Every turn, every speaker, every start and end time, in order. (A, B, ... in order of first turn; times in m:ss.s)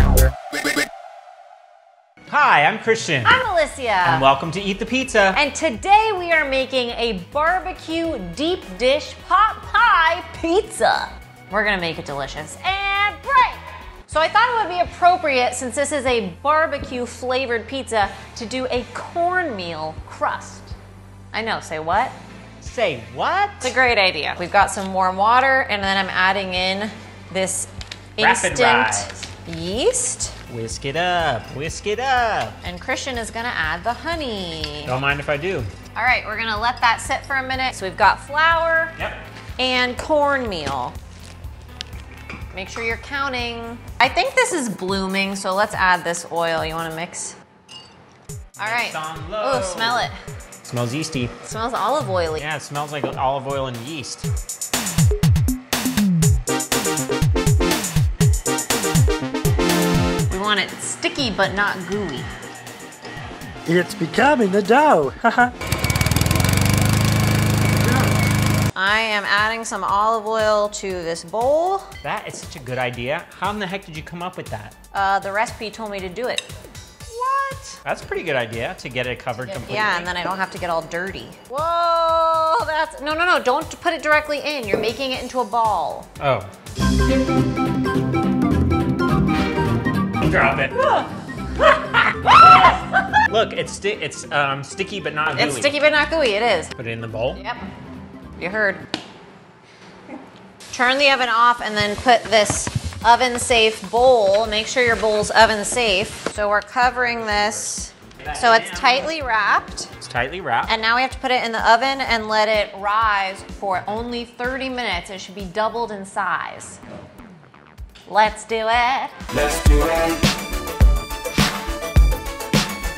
0:02.3-0:03.4 A
0:03.2-0:04.2 B
0:04.0-0:05.4 A
0:05.3-0:20.7 B
0:21.3-0:22.2 B
0:22.6-0:23.7 A
0:23.6-0:30.4 B
0:28.2-0:29.2 A
0:30.5-0:32.6 A
0:32.6-0:34.9 B
0:34.8-0:35.7 A
0:35.9-0:39.0 B
0:39.6-0:41.0 B
0:42.5-0:47.4 B
0:48.6-0:50.1 A
0:48.6-0:50.2 B
0:50.6-0:51.3 A
0:51.4-0:52.4 B
0:52.4-0:54.2 A
1:00.3-1:02.3 B
1:03.7-1:05.5 C
1:07.8-1:08.1 C
1:08.7-1:11.9 B
1:12.0-1:14.7 A
1:14.9-1:16.4 B
1:17.1-1:17.8 B
1:17.8-1:20.1 A
1:19.5-1:26.1 B
1:26.2-1:26.5 A
1:30.2-1:31.0 A
1:31.6-1:32.7 A
1:33.2-1:35.7 A
1:35.3-1:36.7 B
1:36.8-1:37.4 A
1:37.3-1:37.6 B
1:38.4-1:38.8 B
1:40.7-1:49.9 B
1:47.0-1:47.6 A
1:48.2-1:49.1 A
1:50.0-1:50.7 A
1:50.7-1:56.8 B
1:58.1-1:59.2 B